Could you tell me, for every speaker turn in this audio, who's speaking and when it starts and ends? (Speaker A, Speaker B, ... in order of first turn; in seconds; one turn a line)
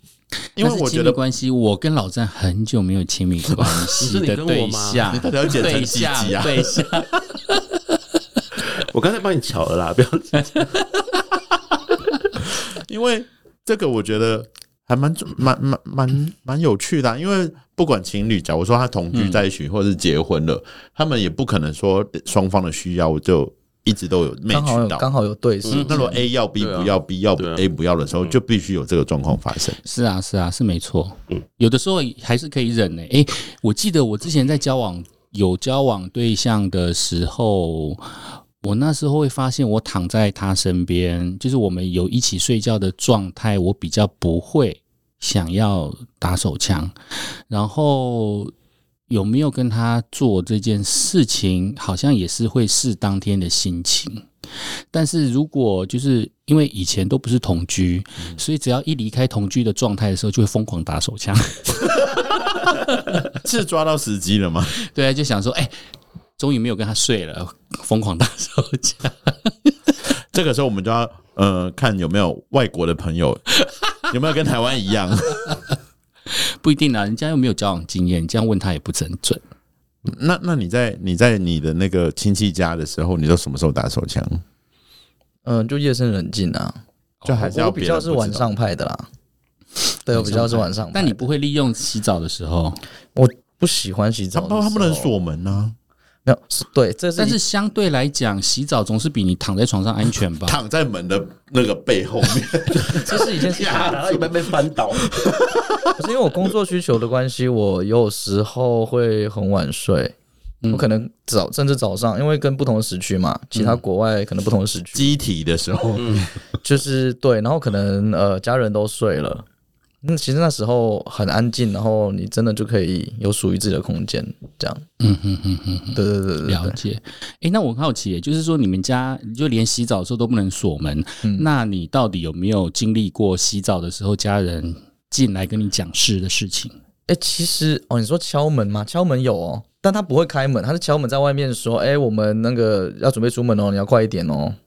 Speaker A: 0.6-1.2
Speaker B: 0.6-7.6
Speaker A: 3.5-3.9
Speaker C: 4.0-5.2
Speaker A: 5.1-6.9
Speaker C: 8.6-10.7
Speaker A: 12.7-25.0
Speaker B: 19.1-19.4
Speaker D: 24.5-26.1
Speaker C: 25.6-25.9
Speaker B: 25.7-26.2
Speaker A: 25.8-29.8
Speaker C: 26.6-27.6
Speaker B: 29.8-46.9
Speaker B: 47.5-48.5
Speaker B: 49.1-54.3
Speaker B: 54.9-62.1
Speaker A: 63.3-64.8
Speaker B: 64.8-65.8
Speaker B: 66.4-69.9
Speaker A: 70.3-73.5
Speaker A: 74.1-75.6
Speaker B: 76.3-79.4
Speaker A: 80.0-84.4
Speaker D: 85.5-86.8
Speaker A: 87.2-88.5
Speaker D: 87.3-89.1
Speaker D: 90.0-91.3
Speaker B: 90.1-92.8
Speaker D: 93.1-95.1
Speaker A: 94.3-95.7
Speaker D: 96.2-97.4
Speaker B: 97.2-100.6
Speaker A: 100.4-105.9
Speaker C: 102.7-105.1
Speaker D: 103.0-103.9
Speaker D: 106.0-110.1
Speaker D: 110.7-115.2
Speaker A: 114.9-116.3
Speaker C: 116.0-116.2
Speaker D: 116.6-119.4
Speaker D: 120.0-124.8
Speaker B: 125.0-136.8
Speaker D: 125.9-126.8
Speaker D: 131.2-131.5
Speaker D: 137.1-144.6